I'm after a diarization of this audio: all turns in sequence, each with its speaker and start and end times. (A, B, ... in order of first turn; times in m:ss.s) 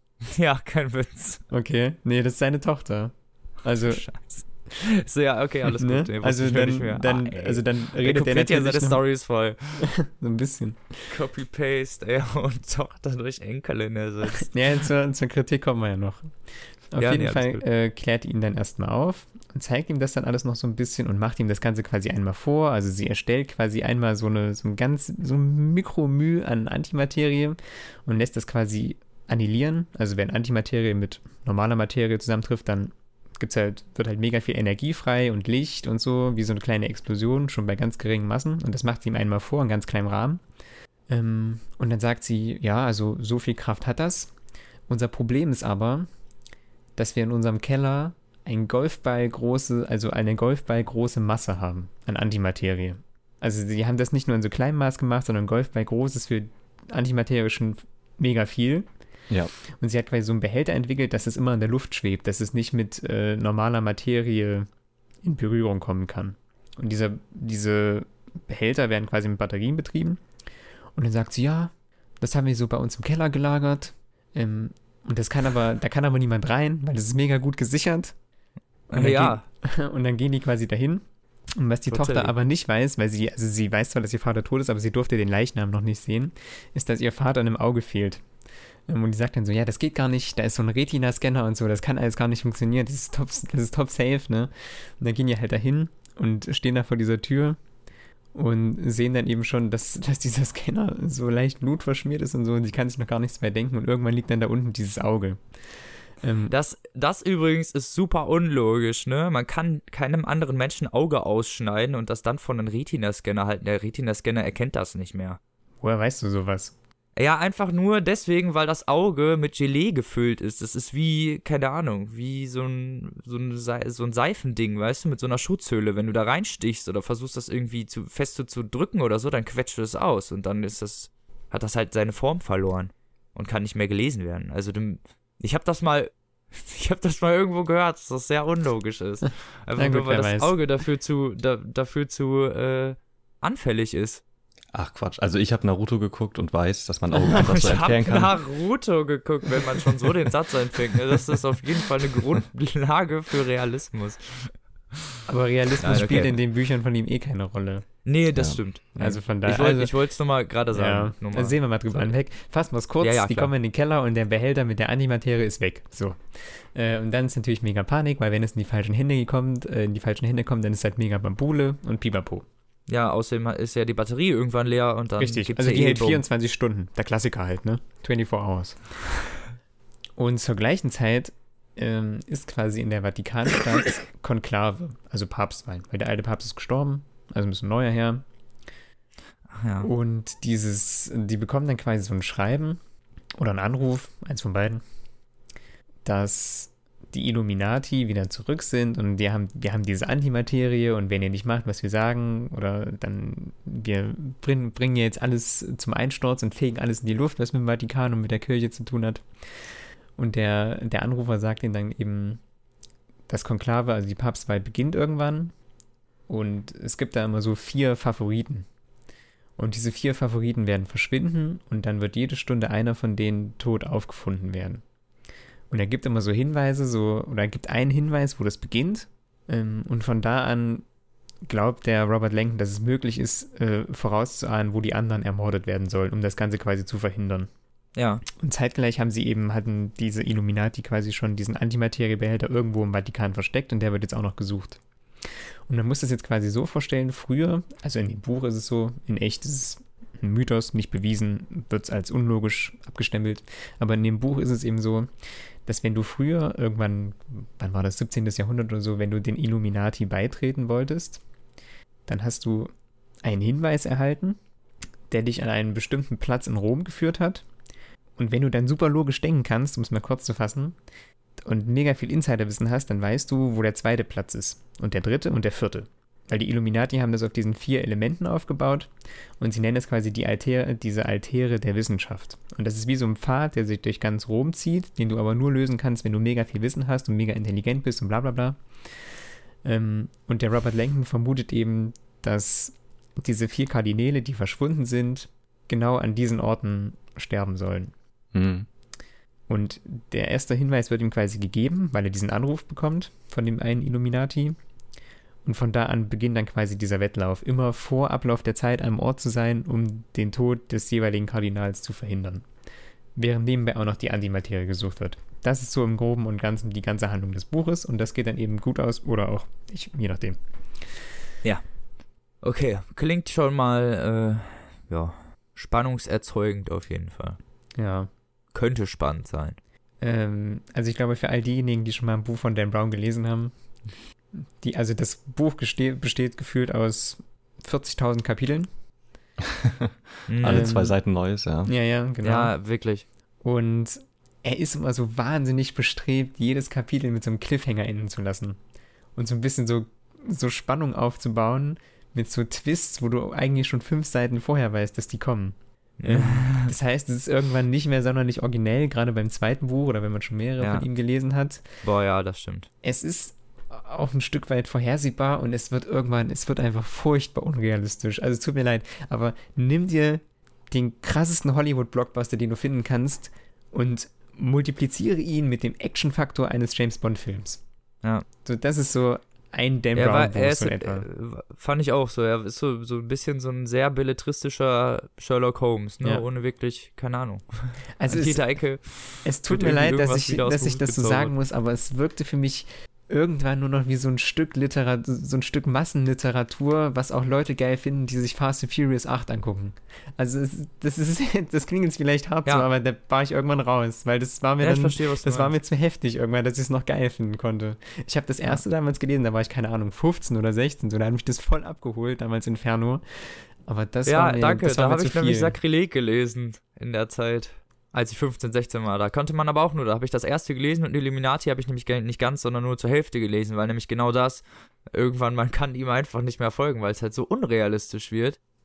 0:00.3-0:01.4 A
0:01.5-0:04.0 B
0:03.8-0:09.9 A
0:05.7-0:09.0 B
0:09.8-0:11.1 B
0:11.1-0:14.5 A
0:14.4-0:40.4 B
0:17.0-0:17.6 A
0:41.1-0:44.3 B
0:44.9-0:46.1 B
0:47.0-0:58.9 B
0:59.8-1:04.7 B
1:05.2-1:10.2 B
1:11.0-1:18.2 B
1:18.9-1:19.4 A
1:18.9-1:21.0 B
1:21.6-1:28.2 B
1:21.9-1:22.3 A
1:28.9-1:37.6 B
1:38.3-1:45.4 B
1:46.2-1:46.5 B
1:46.5-1:55.4 A
1:55.8-1:56.8 B
1:57.2-2:24.2 A
2:19.8-2:20.7 B
2:24.7-2:28.3 C
2:27.3-2:34.6 A
2:35.3-2:37.9 B
2:35.8-2:36.4 A
2:38.0-2:42.1 A
2:38.3-2:38.6 C
2:39.0-2:39.9 B
2:40.7-2:52.5 B
2:43.0-2:43.5 A
2:52.9-2:56.2 A
2:55.2-2:59.1 B
3:00.2-3:08.2 B
3:09.6-3:09.9 A
3:09.8-3:12.8 B
3:13.4-3:14.8 B
3:16.0-3:32.4 B
3:33.3-3:35.5 B
3:36.3-3:38.7 B
3:39.6-3:44.8 B
3:45.7-3:50.8 B
3:51.4-3:57.5 B
3:58.0-3:58.2 A
3:58.4-4:21.2 B
4:22.1-4:22.7 B
4:23.2-4:24.4 B
4:25.1-4:27.5 B
4:28.2-4:30.8 B
4:31.4-4:49.1 B
4:49.6-4:57.9 B
4:58.3-4:58.7 C
4:59.5-5:04.6 B
5:05.4-5:12.5 B
5:13.2-5:21.0 B
5:22.4-5:27.4 A
5:27.8-5:28.1 B
5:28.5-5:29.6 A
5:30.0-5:33.5 B
5:34.6-5:38.7 B
5:39.5-5:41.7 C
5:40.3-5:40.7 A
5:40.4-5:41.0 B
5:41.7-5:42.5 B
5:42.2-5:43.0 A
5:43.4-5:48.6 B
5:49.2-6:01.8 B
5:56.0-5:56.7 A
6:00.6-6:00.9 A
6:01.8-6:02.7 A
6:02.8-6:17.6 B
6:18.4-6:21.1 B
6:20.0-6:31.3 A
6:28.0-6:55.6 B
6:44.6-6:45.5 A
6:54.1-7:08.4 A